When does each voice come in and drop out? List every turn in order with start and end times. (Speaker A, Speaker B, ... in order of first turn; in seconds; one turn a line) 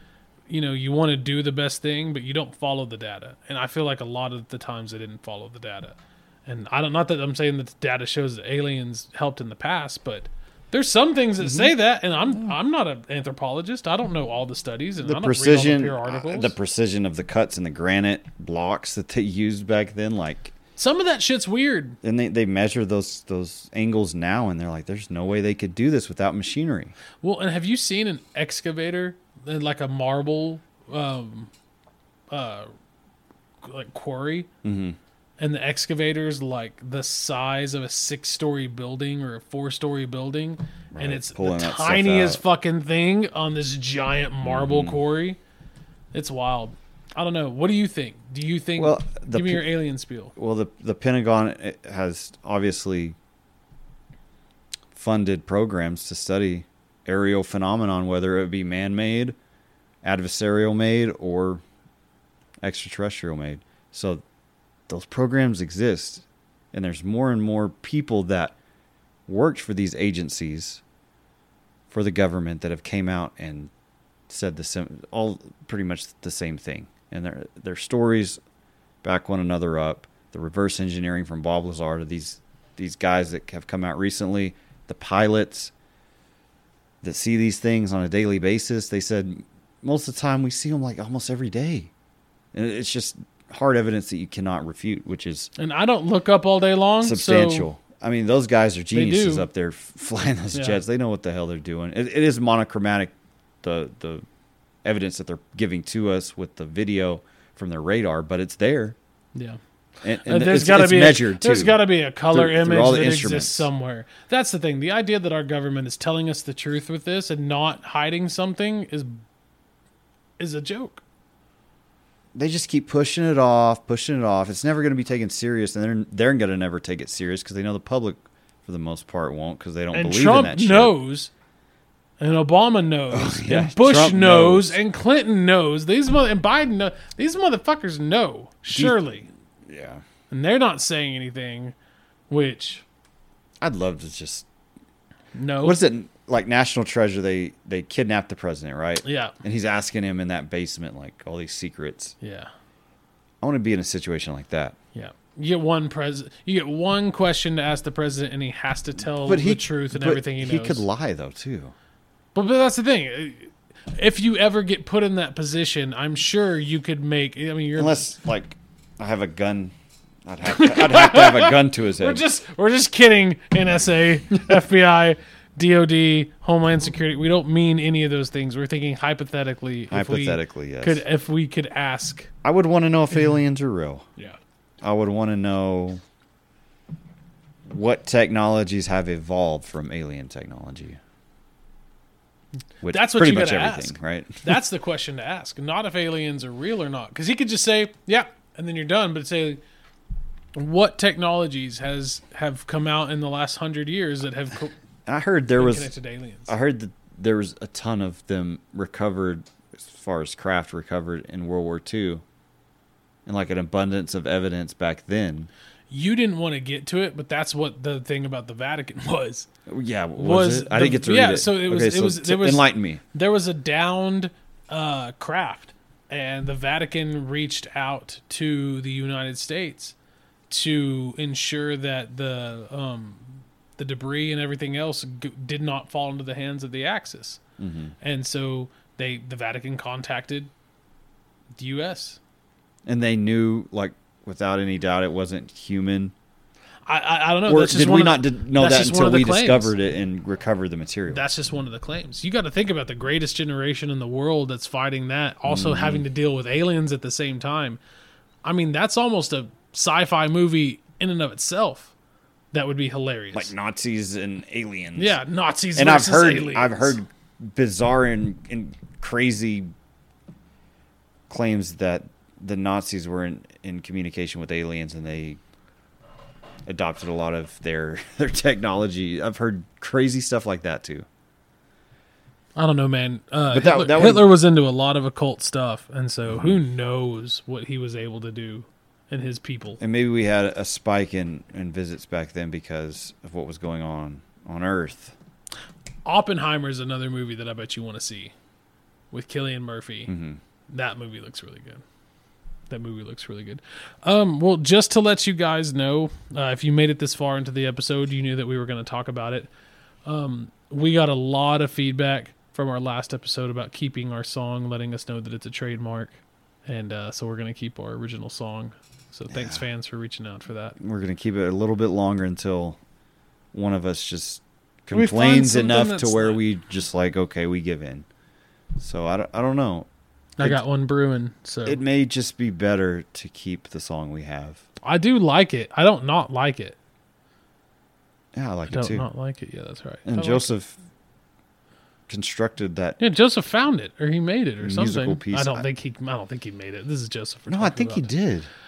Speaker A: 0.5-16.5
Speaker B: 11.4-11.7
Speaker B: 15.0-20.5
Speaker A: 20.8-22.0
Speaker B: 22.0-26.9
Speaker A: 27.2-31.5
Speaker A: 32.3-32.7
Speaker A: 33.6-34.5
Speaker B: 34.6-35.0
Speaker A: 35.4-45.4
Speaker B: 40.9-42.4
Speaker B: 44.4-45.0
Speaker A: 46.1-50.3
Speaker B: 48.8-49.6
Speaker B: 50.4-53.1
Speaker B: 54.9-59.4
Speaker B: 60.0-61.6
Speaker B: 62.6-64.2
Speaker B: 64.9-68.5
Speaker B: 69.3-70.8
Speaker B: 71.9-73.7
Speaker B: 74.3-78.4
Speaker B: 79.0-85.7
Speaker B: 87.0-91.9
Speaker B: 92.5-95.5
Speaker A: 95.6-97.7
Speaker B: 97.0-104.2
Speaker A: 98.9-99.5
Speaker A: 100.5-100.8
Speaker B: 104.8-109.0
Speaker B: 110.0-111.8
Speaker A: 110.2-119.2
Speaker B: 112.3-113.7
Speaker A: 120.4-121.0
Speaker B: 122.3-130.9
Speaker A: 129.9-131.3
Speaker A: 132.2-139.3
Speaker B: 133.1-134.8
Speaker B: 138.7-139.0
Speaker B: 139.6-140.0
Speaker A: 140.3-141.7
Speaker A: 142.3-142.8
Speaker B: 143.6-144.4
Speaker A: 145.3-145.8
Speaker B: 145.6-152.1
Speaker A: 149.0-149.3
Speaker A: 152.2-152.5
Speaker B: 153.4-154.8
Speaker A: 154.9-160.8
Speaker B: 159.2-161.7
Speaker A: 162.3-168.0
Speaker B: 167.8-169.7
Speaker B: 170.2-172.2
Speaker A: 170.4-182.3
Speaker B: 179.9-181.0
Speaker B: 182.4-184.1
Speaker B: 184.8-186.0
Speaker B: 187.7-191.0
Speaker B: 192.8-194.6
Speaker A: 192.9-199.6
Speaker A: 200.5-204.7
Speaker B: 205.1-205.9
Speaker A: 205.5-206.5
Speaker B: 206.5-212.2
Speaker B: 213.2-215.5
Speaker A: 215.9-219.5
Speaker B: 219.7-223.0
Speaker A: 220.2-229.9
Speaker A: 230.5-237.4
Speaker B: 237.6-237.9
Speaker A: 238.0-240.5
Speaker A: 241.6-242.2
Speaker B: 242.8-246.1
Speaker A: 246.8-249.7
Speaker B: 247.4-251.2
Speaker A: 251.1-257.8
Speaker B: 255.4-256.0
Speaker A: 258.4-261.9
Speaker A: 262.5-263.5
Speaker B: 263.3-265.2
Speaker A: 265.0-267.0
Speaker B: 265.7-269.7
Speaker B: 271.3-275.4
Speaker B: 276.6-281.1
Speaker A: 282.6-289.8
Speaker B: 283.5-284.2
Speaker B: 286.3-286.6
Speaker B: 289.8-295.1
Speaker A: 296.0-298.3
Speaker A: 299.1-300.1
Speaker B: 300.1-300.4
Speaker A: 300.7-301.8
Speaker A: 302.7-309.5
Speaker A: 310.1-320.8
Speaker B: 319.3-319.6
Speaker B: 320.8-322.8
Speaker B: 323.5-328.1
Speaker A: 324.9-326.4
Speaker B: 328.8-329.9
Speaker A: 330.4-331.8
Speaker B: 331.6-334.6
Speaker A: 334.8-336.8
Speaker B: 338.3-339.1
Speaker A: 338.7-340.5
Speaker B: 340.1-340.8
Speaker B: 342.1-343.0
Speaker A: 343.0-348.1
Speaker B: 344.6-345.6
Speaker B: 347.5-348.5